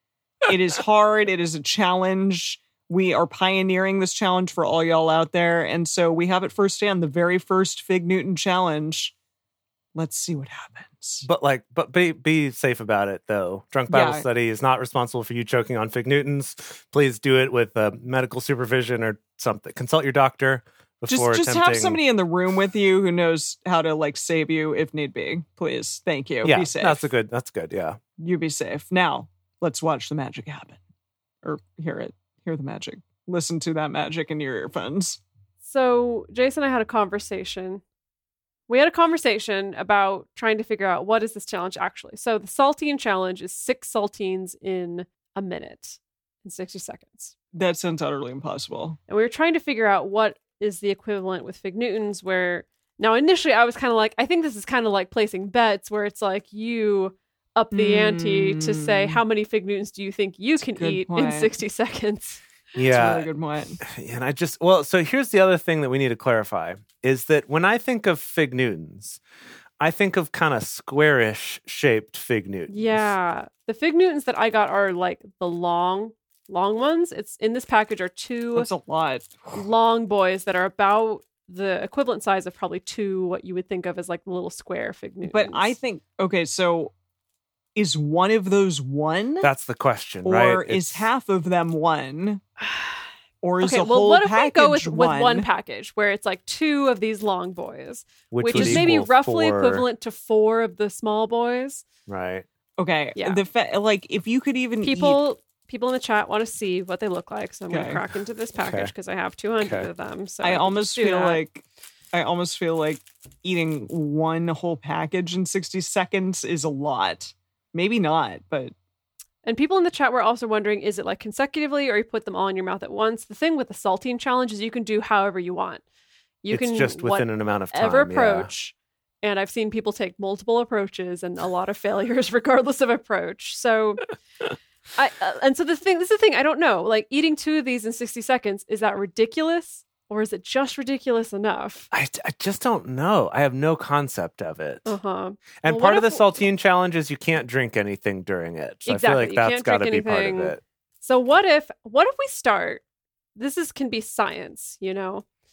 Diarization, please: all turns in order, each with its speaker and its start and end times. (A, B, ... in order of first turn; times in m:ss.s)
0:00.4-0:09.1 A
0:10.0-0:11.3 A
0:11.2-0:22.0 B
0:13.9-0:14.3 A
0:21.1-0:27.1 A
0:26.4-0:28.0 B
0:28.2-0:30.8 A
0:31.4-0:35.2 A
0:35.6-0:37.8 C
0:38.7-0:47.3 C
0:47.6-0:49.0 A
0:49.1-1:02.4 C
0:57.7-0:59.2 A
1:00.6-1:01.6 A
1:02.8-1:03.3 B
1:02.8-1:03.8 A
1:03.8-1:09.2 B
1:09.8-1:13.1 B
1:12.7-1:18.7 C
1:18.6-1:19.6 A
1:19.5-1:25.8 C
1:25.2-1:26.9 A
1:27.8-1:29.5 A
1:29.4-1:31.1 B
1:30.2-1:32.4 A
1:32.6-1:33.0 C
1:33.4-1:35.5 A
1:33.6-1:41.8 C
1:38.3-1:39.9 B
1:38.5-1:38.8 A
1:42.1-1:42.5 B
1:42.8-1:45.2 A
1:43.2-1:43.4 C
1:44.8-1:51.4 C
1:47.7-1:48.0 A
1:48.6-1:48.9 B
1:49.6-1:49.9 B
1:50.4-1:58.7 A
1:59.4-2:05.8 C
2:06.4-2:14.1 C
2:06.5-2:08.5 B
2:15.0-2:21.9 C
2:21.9-2:24.9 B
2:24.9-2:26.3 C
2:25.6-2:30.6 B
2:28.9-2:32.8 C
2:33.4-2:35.2 C